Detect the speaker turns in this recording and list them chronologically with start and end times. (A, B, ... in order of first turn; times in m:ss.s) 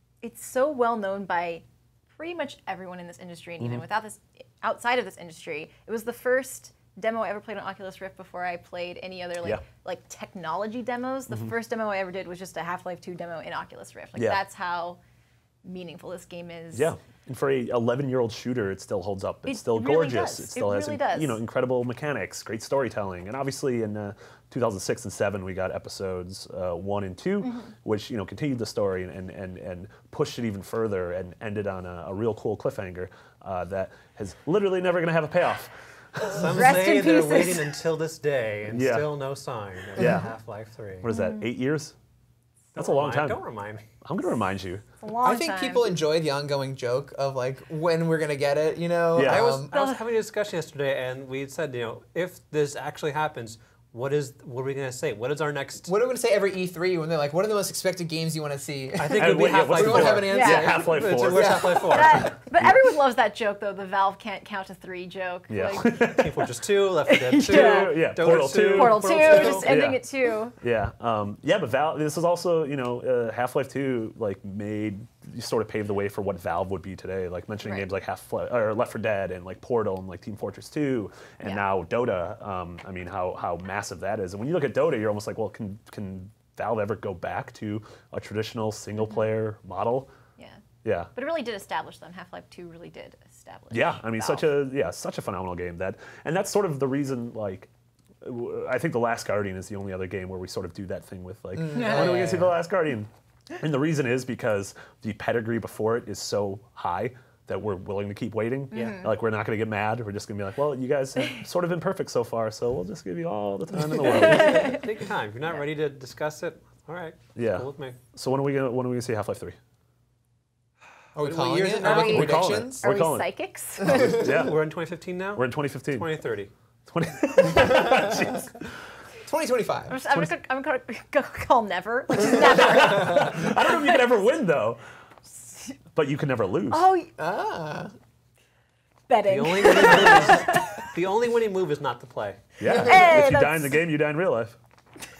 0:00.2-0:15.0 A
0:14.1-0:14.4 B
0:15.6-0:16.9 A
0:16.7-0:36.5 B
0:19.4-0:21.4 A
0:27.4-0:27.7 A
0:36.3-0:41.1 C
0:36.4-0:37.7 A
0:38.7-0:39.1 B
0:39.9-0:40.3 B
0:41.0-0:42.0 B
0:41.1-0:41.4 A
0:42.7-0:43.8 C
0:42.7-0:43.4 B
0:44.0-0:44.8 B
0:45.0-0:45.9 A
0:45.2-0:49.7 D
0:49.1-0:49.4 B
0:49.2-0:55.9 C
0:49.7-0:50.0 A
0:55.8-1:02.2 D
0:58.9-1:02.3 C
0:59.1-1:01.9 B
1:00.3-1:00.8 A
1:01.9-1:06.0 A
1:02.6-1:02.8 B
1:05.5-1:06.4 B
1:06.1-1:09.7 C
1:07.3-1:10.0 B
1:07.4-1:08.0 A
1:08.7-1:10.5 A
1:10.6-1:30.1 B
1:17.6-1:17.9 A
1:30.8-1:31.1 B
1:31.1-1:34.5 A
1:33.7-1:37.7 B
1:38.2-1:54.8 B
1:41.6-1:42.5 D
1:41.7-1:42.3 A
1:48.7-1:49.1 A
1:53.8-1:58.0 C
1:54.2-1:54.8 A
1:57.4-1:59.6 B
2:01.1-2:02.8 D
2:01.2-2:02.2 C
2:01.8-2:04.2 A
2:01.9-2:04.6 B
2:03.9-2:04.2 D
2:04.2-2:06.5 C
2:05.3-2:06.1 B
2:06.9-2:08.7 B
2:07.7-2:08.0 D
2:09.2-2:10.0 D
2:09.9-2:14.1 A
2:10.1-2:10.3 B
2:12.2-2:14.8 B
2:15.9-2:16.8 B
2:16.7-2:17.1 A
2:17.2-2:17.9 D
2:19.1-2:20.8 A
2:19.2-2:22.4 C
2:22.6-2:24.6 B
2:22.7-2:23.8 A